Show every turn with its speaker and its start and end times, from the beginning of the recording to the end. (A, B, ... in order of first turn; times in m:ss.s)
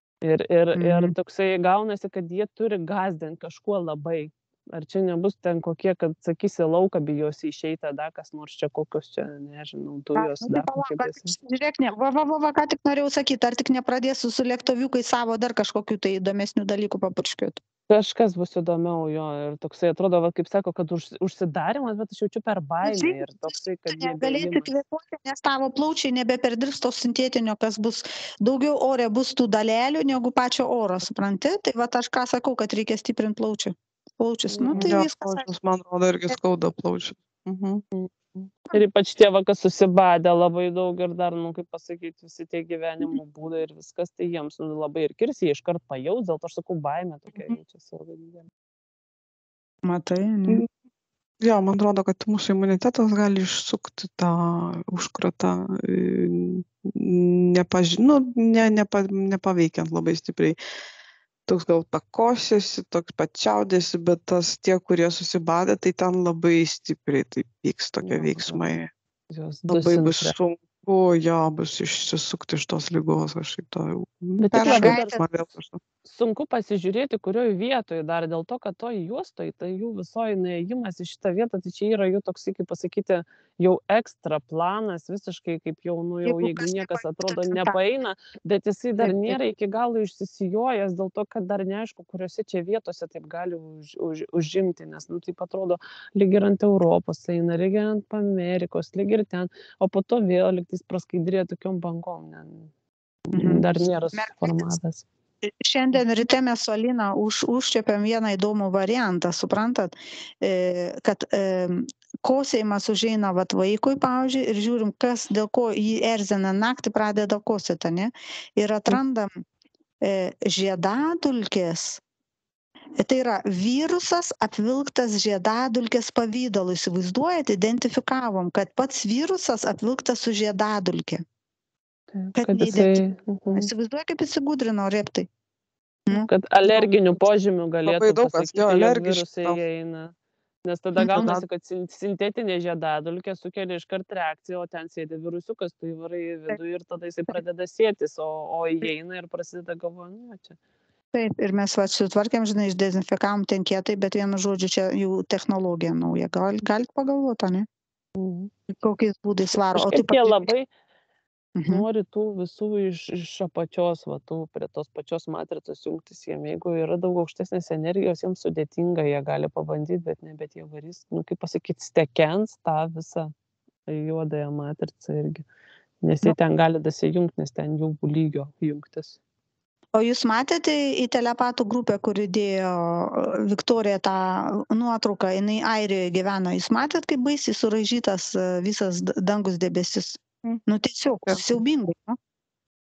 0:00.2-0:11.3 A
0:00.8-0:01.1 B
0:10.1-0:17.6 B
0:17.9-0:24.7 A
0:22.8-0:35.5 B
0:34.5-0:34.9 A
0:34.8-0:37.8 C
0:37.9-0:48.5 A
0:49.8-0:50.6 B
0:51.4-1:00.6 C
1:01.5-1:08.9 C
1:08.0-1:08.6 A
1:09.3-1:10.3 A
1:09.7-1:15.8 C
1:14.4-1:15.2 A
1:14.6-1:15.2 B
1:16.0-1:42.7 A
1:26.2-1:27.8 B
1:29.0-1:29.4 B
1:43.3-1:45.0 A
1:43.3-1:44.7 B
1:45.4-1:59.4 B
2:00.0-2:02.0 B
2:03.0-2:11.2 B
2:12.1-2:13.7 A
2:12.3-2:13.0 B
2:13.5-2:15.3 B
2:16.1-2:16.9 B
2:16.1-2:20.1 A
2:17.8-2:19.6 C
2:20.6-2:30.6 A
2:21.0-2:21.4 B
2:21.2-2:21.4 C
2:31.1-2:37.7 B
2:38.2-2:38.5 A
2:38.7-2:40.5 B
2:39.7-2:40.7 A
2:41.6-2:41.8 B
2:41.7-2:53.3 A
2:53.9-2:55.4 A
2:56.0-2:59.2 A
2:59.9-3:12.2 B